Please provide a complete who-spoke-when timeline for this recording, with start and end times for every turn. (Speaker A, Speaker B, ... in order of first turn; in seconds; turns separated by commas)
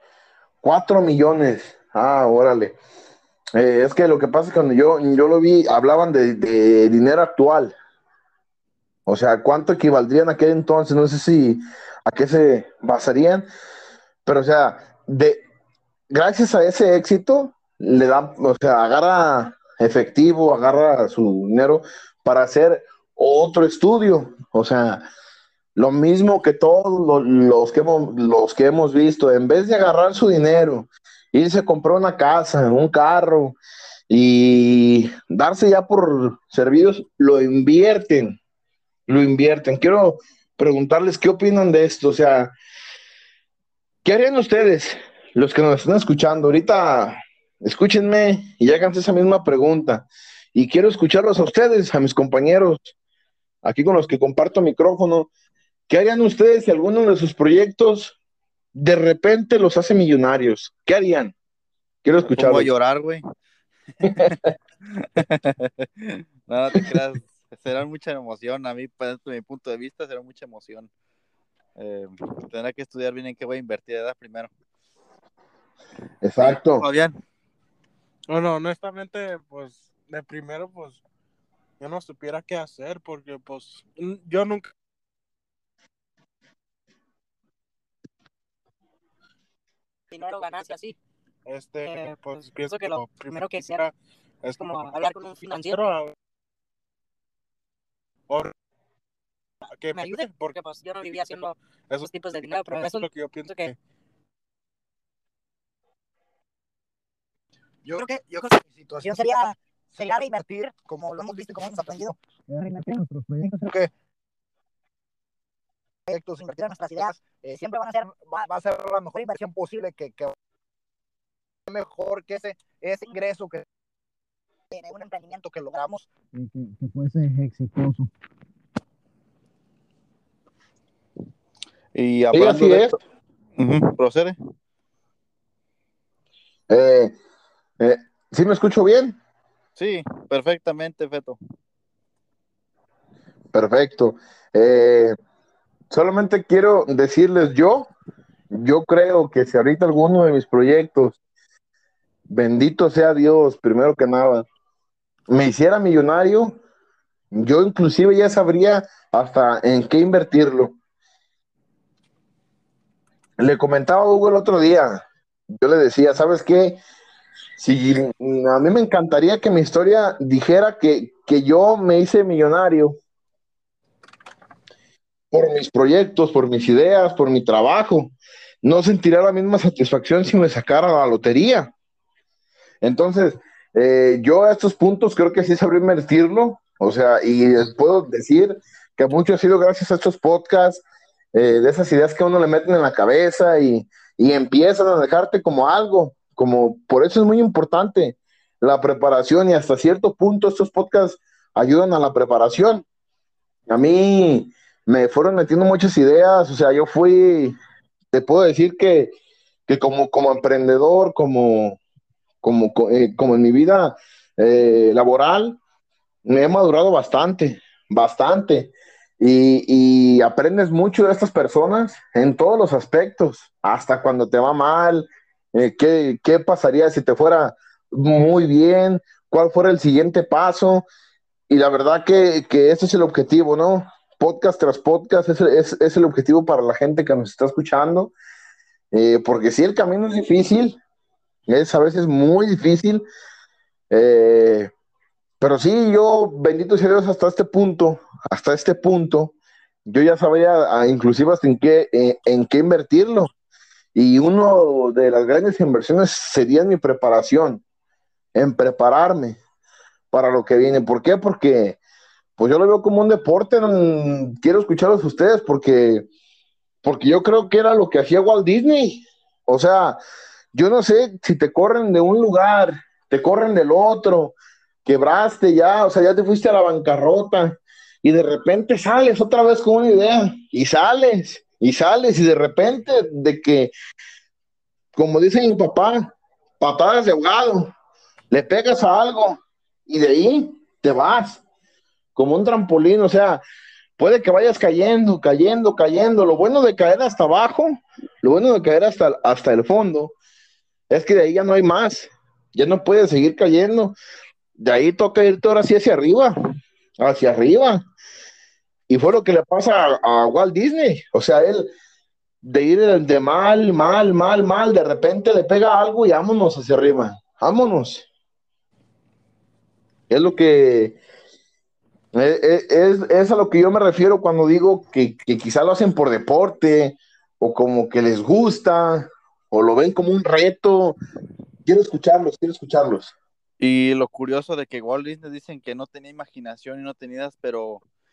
Speaker A: 0.6-2.8, Speaker A: 3.5-7.7, Speaker A: 9.1-13.4, Speaker A: 14.2-15.4, Speaker A: 16.1-25.0, Speaker A: 25.8-33.6, Speaker A: 34.1-38.4, Speaker A: 39.1-42.5, Speaker A: 44.0-52.9, Speaker A: 53.6-55.3, Speaker A: 55.9-58.1, Speaker A: 58.7-61.3, Speaker A: 62.0-62.7, Speaker B: 62.2-63.2, Speaker B: 64.0-64.3, Speaker A: 64.0-64.4, Speaker B: 64.9-70.9, Speaker B: 71.8-74.5, Speaker A: 76.2-76.8, Speaker B: 76.4-77.2, Speaker C: 78.3-81.0, Speaker C: 81.8-84.7, Speaker D: 90.1-91.0, Speaker C: 91.5-96.1, Speaker D: 91.8-92.1, Speaker D: 92.7-93.8, Speaker D: 94.6-95.8, Speaker C: 99.8-100.6, Speaker D: 99.9-103.1, Speaker C: 101.9-103.8, Speaker E: 107.8-113.9, Speaker E: 116.0-120.3, Speaker E: 121.7-123.6, Speaker E: 124.7-128.1, Speaker B: 131.9-133.0, Speaker A: 132.3-133.0, Speaker B: 133.6-134.3, Speaker A: 136.7-137.1, Speaker A: 137.8-139.2, Speaker B: 139.8-141.4, Speaker A: 143.5-145.1, Speaker A: 145.9-147.9, Speaker A: 148.5-151.2, Speaker A: 152.3-154.4, Speaker A: 155.3-156.6, Speaker A: 157.3-160.7, Speaker A: 163.4-166.8, Speaker A: 167.6-173.0, Speaker A: 175.3-181.7, Speaker A: 182.8-202.8, Speaker A: 203.7-207.6, Speaker A: 208.1-209.1, Speaker A: 209.7-211.8, Speaker A: 212.4-215.6, Speaker A: 216.2-230.8, Speaker A: 231.5-238.1, Speaker A: 238.9-240.8, Speaker A: 241.5-243.0, Speaker A: 243.9-244.7, Speaker A: 245.4-249.3, Speaker A: 249.8-253.3, Speaker A: 253.9-257.6, Speaker A: 258.3-259.4, Speaker A: 260.1-261.8, Speaker A: 262.4-266.1, Speaker A: 266.8-270.0, Speaker A: 270.5-283.7, Speaker A: 284.9-287.7, Speaker A: 288.3-291.4, Speaker A: 292.1-293.4, Speaker A: 294.0-300.1, Speaker A: 300.9-303.9, Speaker A: 304.6-306.3, Speaker A: 307.0-307.8, Speaker A: 308.9-311.7, Speaker A: 312.4-318.1, Speaker A: 320.1-321.0, Speaker A: 322.1-330.9, Speaker A: 331.6-333.1, Speaker B: 333.6-337.8